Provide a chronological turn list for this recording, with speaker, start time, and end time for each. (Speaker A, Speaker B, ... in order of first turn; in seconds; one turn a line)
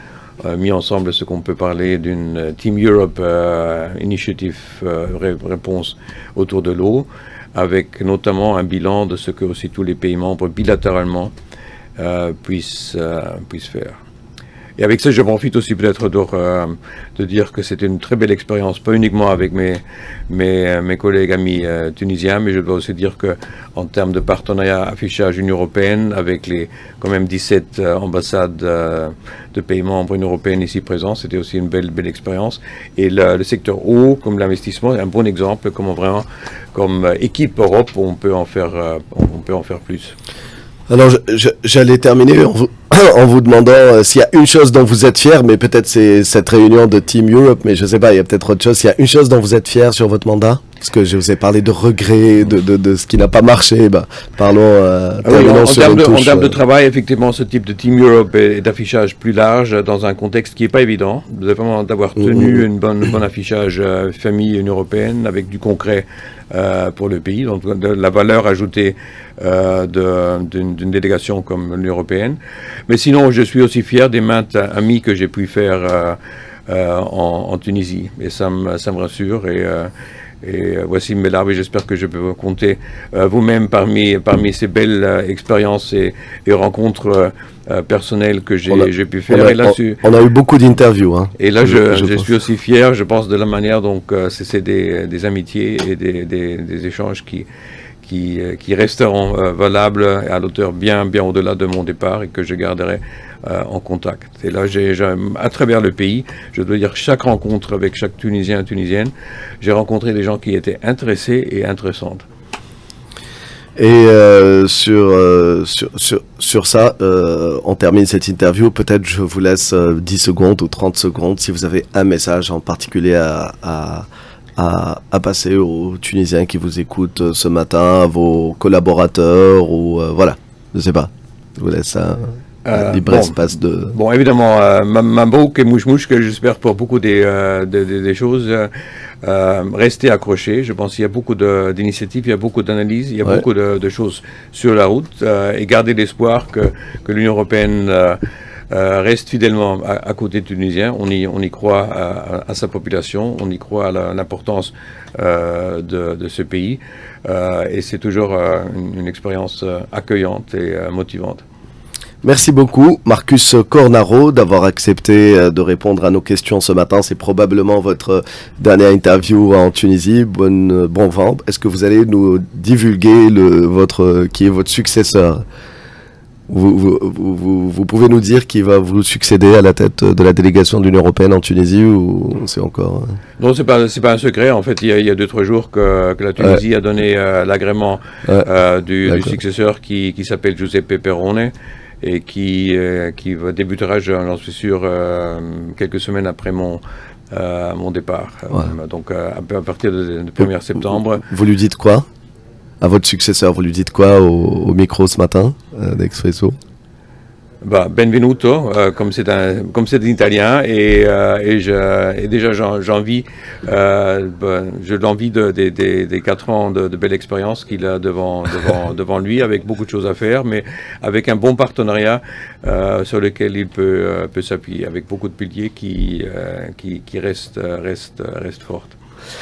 Speaker A: 0.4-11.3
Speaker A: 12.0-14.0
Speaker A: 14.8-40.1
Speaker B: 40.9-56.5
Speaker A: 55.2-90.0
Speaker B: 62.2-62.6
Speaker B: 88.7-92.3
Speaker A: 91.4-97.5
Speaker A: 98.0-112.2
Speaker B: 113.8-133.9
Speaker A: 132.6-138.7
Speaker A: 139.2-161.4
Speaker B: 162.2-175.4
Speaker B: 176.5-183.2
Speaker A: 183.4-201.2
Speaker B: 189.1-189.3
Speaker B: 201.2-202.1
Speaker B: 202.8-206.6
Speaker A: 207.6-229.0